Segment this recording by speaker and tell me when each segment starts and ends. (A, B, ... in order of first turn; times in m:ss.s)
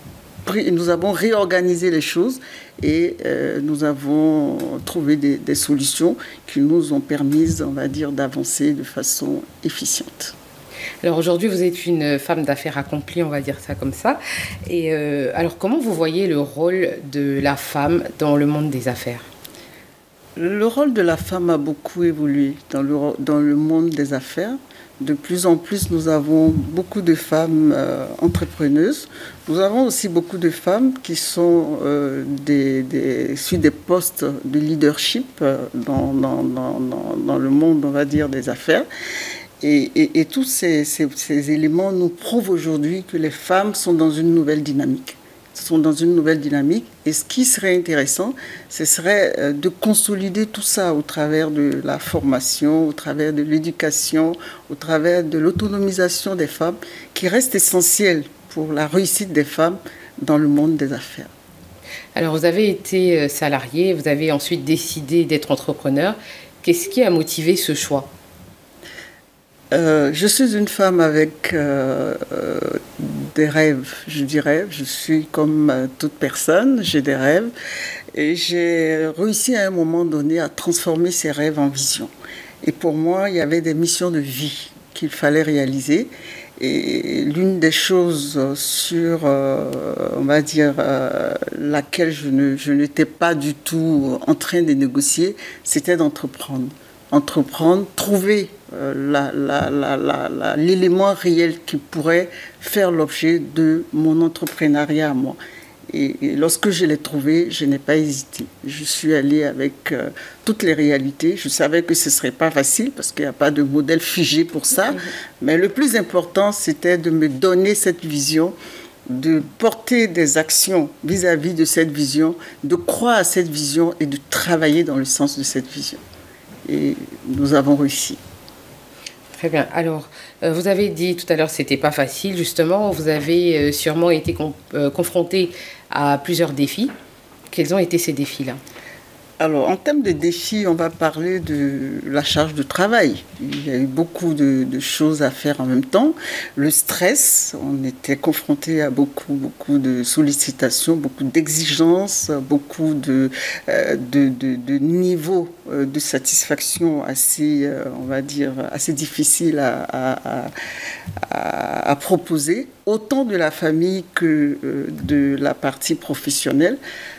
0:00.5-0:10.4 A
0:11.0-0:19.3 B
0:20.4-0:38.9 A
0:39.6-1:01.3 A
1:02.2-1:08.1 B
1:09.7-1:17.5 A
1:18.1-1:22.1 A
1:22.6-1:45.4 A
1:45.9-1:58.6 A
1:59.1-2:06.0 A
2:06.7-2:08.2 A
2:09.4-2:16.9 B
2:17.5-2:18.6 B
2:19.4-2:40.5 A
2:41.3-2:46.8 A